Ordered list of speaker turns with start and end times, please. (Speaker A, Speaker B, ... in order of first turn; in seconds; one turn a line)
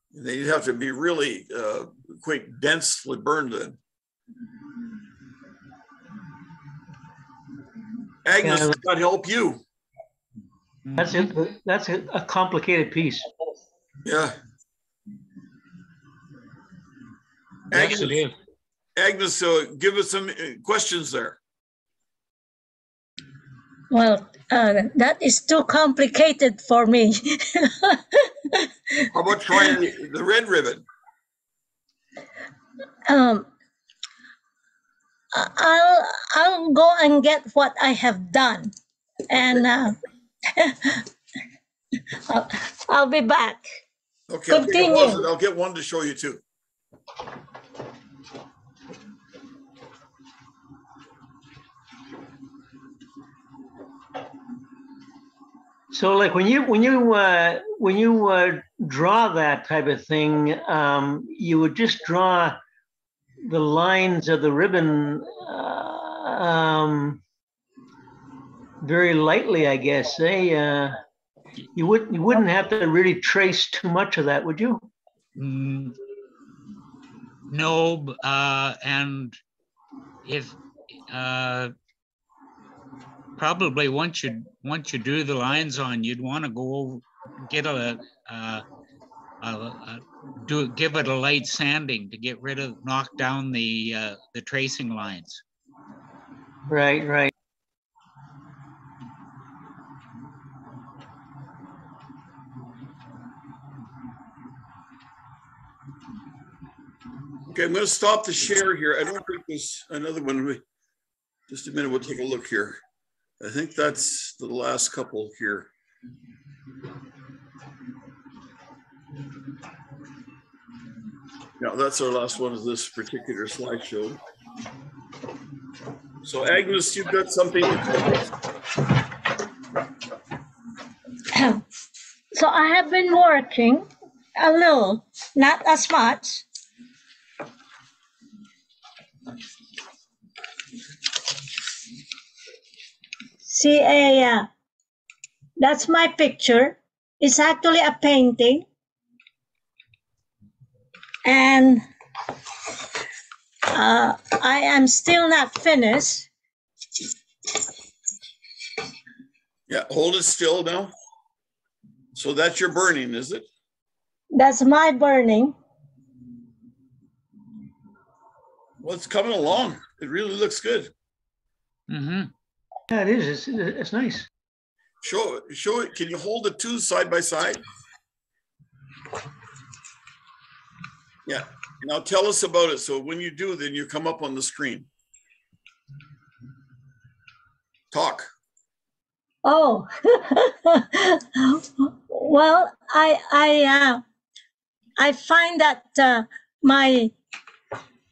Speaker A: 0.1-3.8
Speaker A: 8.2-9.6
Speaker B: 8.4-8.8
Speaker C: 10.8-11.3
Speaker B: 11.0-13.2
Speaker A: 14.0-14.4
Speaker A: 17.7-18.2
Speaker C: 17.7-18.3
Speaker A: 18.9-21.4
Speaker D: 23.9-29.1
Speaker A: 29.1-30.8
Speaker D: 33.1-33.5
Speaker D: 35.3-38.7
Speaker D: 39.3-40.0
Speaker D: 40.5-41.1
Speaker D: 42.1-43.6
Speaker A: 44.3-46.4
Speaker D: 44.5-45.2
Speaker B: 55.9-62.6
Speaker B: 63.4-67.2
Speaker B: 68.8-71.0
Speaker B: 71.7-74.9
Speaker C: 75.3-76.0
Speaker C: 77.5-79.4
Speaker C: 80.2-80.6
Speaker C: 81.1-81.7
Speaker C: 83.4-88.6
Speaker C: 89.4-95.4
Speaker B: 96.7-97.3
Speaker A: 107.5-110.6
Speaker A: 111.5-112.8
Speaker A: 113.4-115.7
Speaker A: 121.6-124.2
Speaker A: 126.2-128.3
Speaker D: 131.3-131.6
Speaker D: 132.3-136.4
Speaker D: 143.4-144.5
Speaker D: 145.6-148.6
Speaker D: 151.2-151.8
Speaker D: 153.7-156.3
Speaker A: 159.7-160.9
Speaker A: 162.1-163.5
Speaker D: 164.3-165.5
Speaker A: 168.8-170.9
Speaker C: 171.9-172.3
Speaker B: 172.9-174.3
Speaker A: 175.0-177.6
Speaker A: 181.2-184.9
Speaker A: 187.9-188.3
Speaker D: 189.4-194.0
Speaker D: 195.0-197.1